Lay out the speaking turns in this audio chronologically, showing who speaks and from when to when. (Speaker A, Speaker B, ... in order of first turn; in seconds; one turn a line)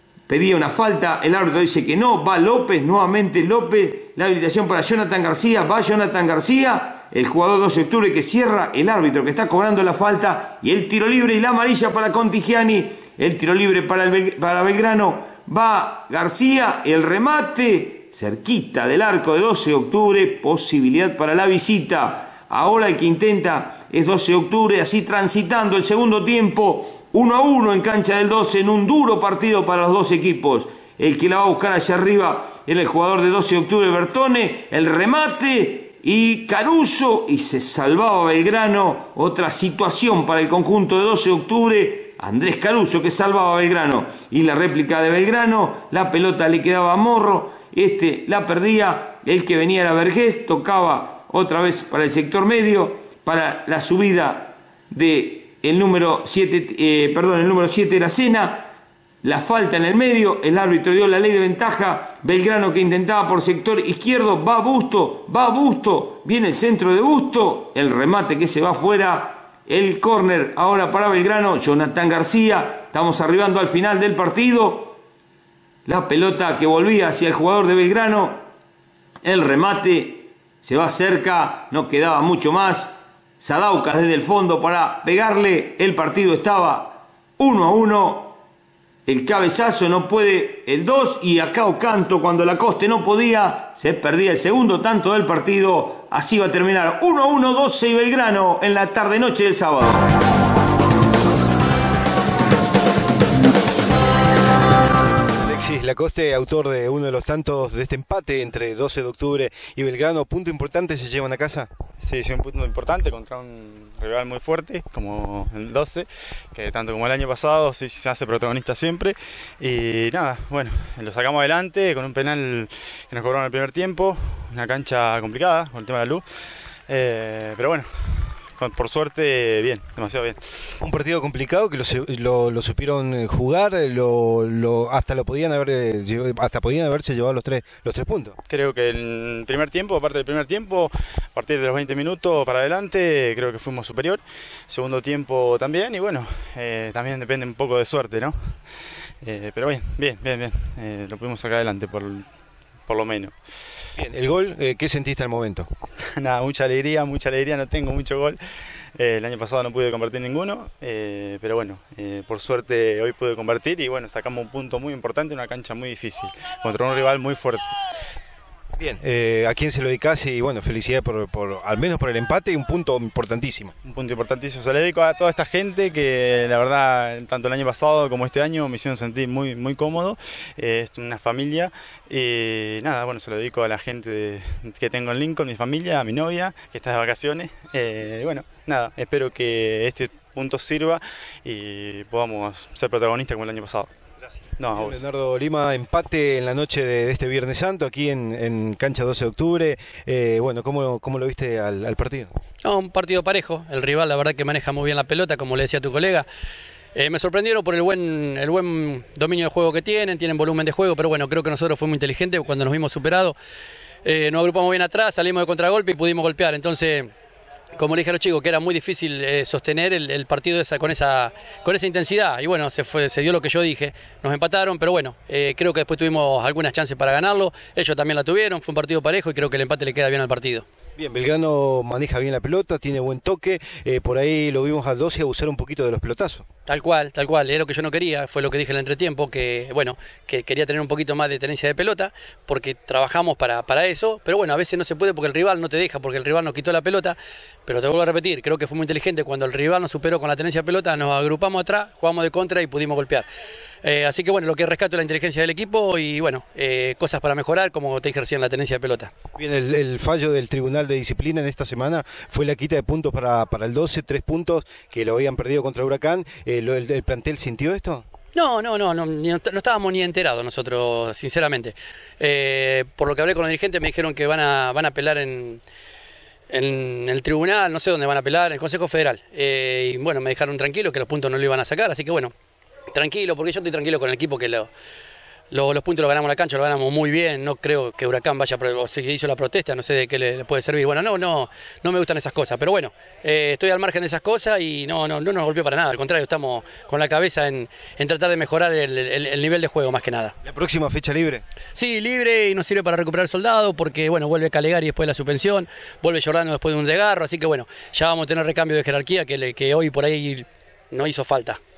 Speaker A: 0.3-58.7
Speaker A: 59.2-75.0
Speaker A: 75.8-78.4
Speaker A: 79.2-88.3
Speaker A: 89.0-100.1
Speaker B: 105.3-111.7
Speaker C: 112.0-126.2
Speaker C: 126.9-130.4
Speaker B: 130.8-138.4
Speaker C: 138.5-148.6
Speaker C: 149.2-152.2
Speaker C: 152.9-153.3
Speaker B: 153.9-155.7
Speaker C: 156.2-158.4
Speaker C: 159.0-167.7
Speaker B: 168.8-173.7
Speaker C: 173.8-193.9
Speaker C: 194.6-195.0
Speaker B: 194.7-202.3
Speaker D: 202.6-206.2
Speaker D: 206.9-213.3
Speaker D: 214.0-217.1
Speaker D: 217.8-230.6
Speaker B: 231.0-236.4
Speaker D: 236.7-253.2
Speaker D: 253.8-259.1
Speaker B: 259.4-268.1
Speaker D: 268.3-275.6
Speaker D: 276.5-282.3
Speaker D: 282.9-284.7
Speaker D: 285.5-300.3
Speaker B: 300.4-301.4
Speaker D: 301.7-311.6